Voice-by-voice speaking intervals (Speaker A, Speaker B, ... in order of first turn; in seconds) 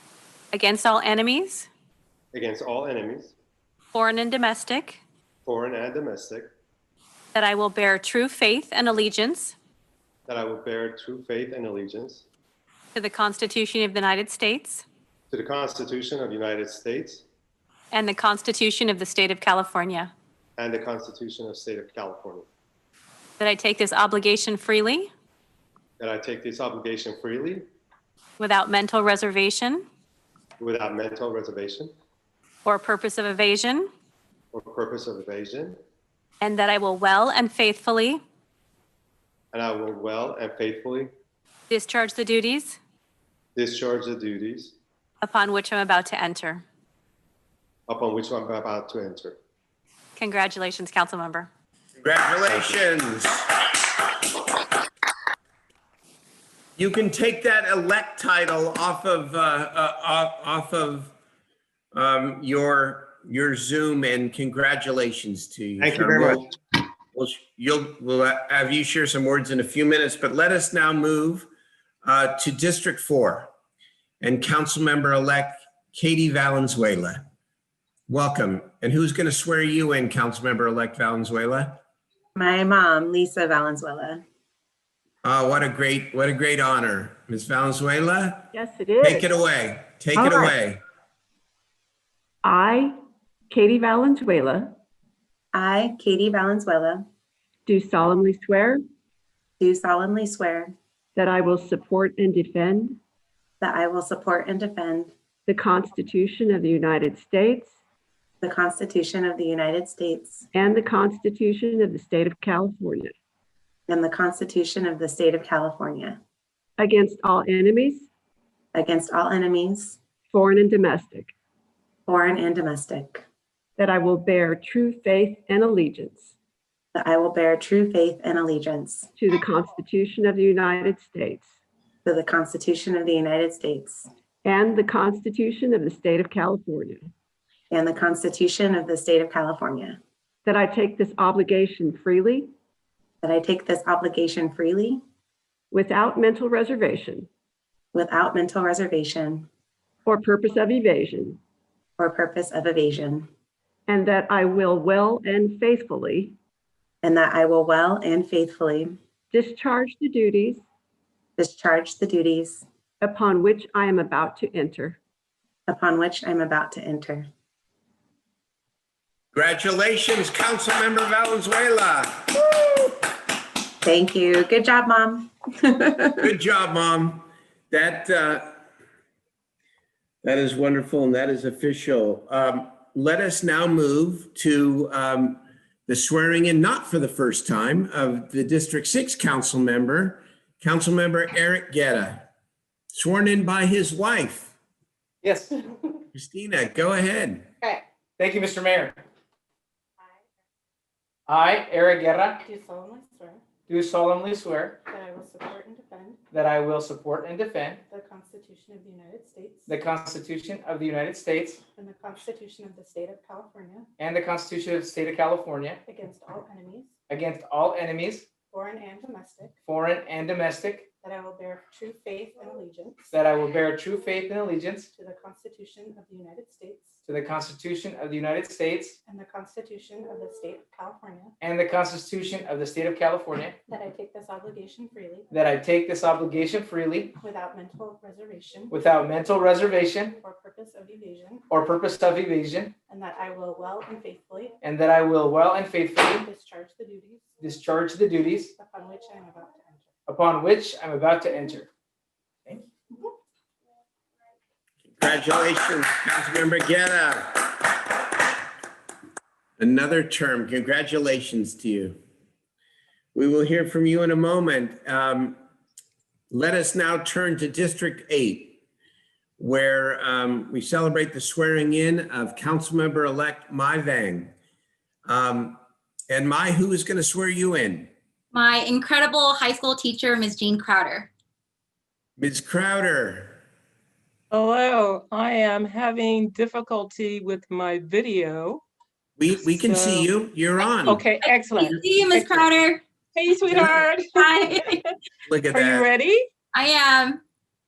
Speaker A: 0.5-1.7, 3.9-5.0, 7.3-9.5, 12.9-14.8, 17.9-20.1, 23.4-25.1, 28.4-29.8, 32.6-33.9, 36.4-38.2, 41.7-42.8, 45.2-46.6, 50.1-51.5
Speaker B: 2.3-3.3, 5.5-6.5, 10.3-12.3, 15.3-17.2, 20.6-22.5, 26.0-27.6, 30.6-31.9, 34.5-35.8, 39.5-41.1, 43.5-44.7, 47.9-49.4, 65.8-66.5
Speaker C: 52.0-53.5, 56.8-61.1, 61.9-66.4, 67.1-71.5, 72.0-73.5, 74.2-77.2, 78.1-81.8, 85.2-88.5, 89.0-90.8, 169.3-172.5, 176.2-178.5, 180.2-192.3, 192.9-194.5, 196.1-197.4, 254.9-257.6, 259.6-262.0, 263.1-265.4, 266.3-268.6, 269.4-274.3, 275.1-275.6, 276.1-277.9, 282.2-283.4, 289.2-291.1, 295.3-295.9
Speaker D: 82.3-84.2, 95.5-97.0, 99.6-100.7, 103.6-105.1, 108.4-110.5, 113.9-116.2, 118.7-120.0, 122.1-123.2, 126.9-129.1, 132.0-134.1, 137.7-140.0, 143.2-145.0, 147.9-149.5, 152.0-153.3, 157.0-158.9, 161.4-162.7, 165.7-167.3, 173.8-176.2
Speaker E: 88.5-89.2, 92.4-92.9, 93.5-94.7, 97.7-98.8, 101.2-103.0, 105.5-107.7, 110.5-113.1, 116.8-118.0, 120.3-121.3, 123.8-126.3, 129.2-131.4, 134.4-137.0, 140.4-142.5, 145.7-147.3, 150.1-151.4, 153.9-156.3, 159.3-160.6, 163.0-165.0
Speaker F: 195.2-195.5, 198.2-199.0, 201.3-202.4, 203.7-204.8, 206.3-207.8, 209.7-211.6, 214.0-215.8, 217.1-218.3, 219.7-220.9, 223.1-224.9, 227.1-228.9, 231.4-233.6, 235.3-237.1, 238.7-240.1, 241.5-242.7, 244.6-246.3, 247.4-248.5, 250.1-251.7
Speaker G: 202.6-203.3, 205.0-206.2, 208.0-209.5, 211.8-213.8, 215.9-216.8, 218.5-219.5, 221.1-223.0, 225.1-226.8, 229.1-231.2, 233.8-235.2, 237.3-238.7, 240.3-241.4, 242.9-244.5, 246.4-247.2, 248.7-249.7
Speaker H: 278.3-281.1, 290.6-292.9, 293.5-294.8, 296.5-297.2
Speaker I: 284.3-288.6, 289.4-290.1, 290.8-292.5, 293.1-294.9, 295.5-296.3